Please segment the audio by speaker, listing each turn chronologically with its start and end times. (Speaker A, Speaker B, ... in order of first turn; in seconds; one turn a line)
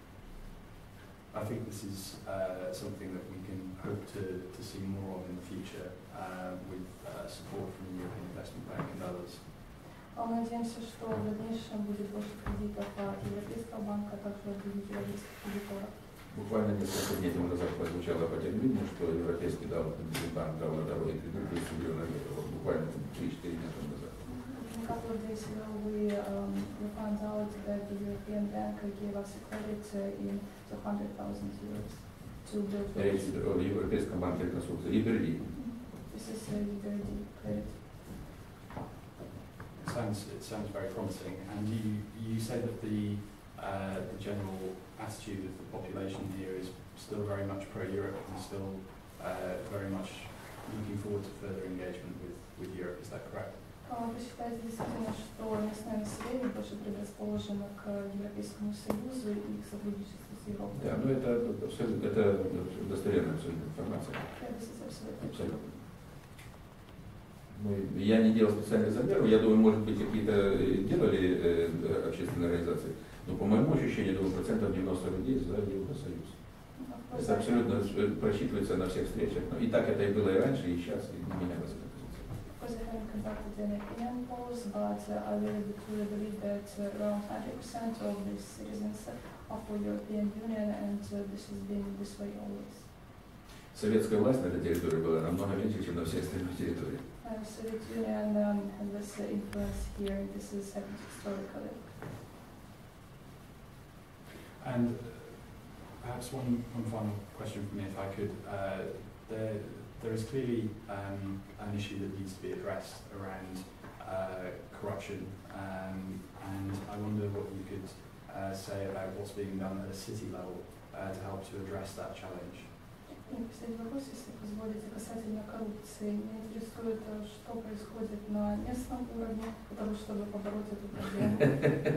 Speaker A: 1.3-9.5
Speaker B: 10.1-16.0
Speaker C: 16.3-24.2
Speaker B: 24.2-33.4
Speaker C: 32.9-35.6
Speaker B: 35.5-37.9
Speaker A: 39.8-53.6
Speaker B: 53.8-61.0
Speaker C: 60.7-65.8
Speaker B: 64.3-65.8
Speaker C: 67.5-82.3
Speaker B: 76.8-78.0
Speaker B: 82.5-93.0
Speaker C: 93.7-97.0
Speaker B: 97.2-101.9
Speaker A: 104.6-122.8
Speaker B: 123.2-131.7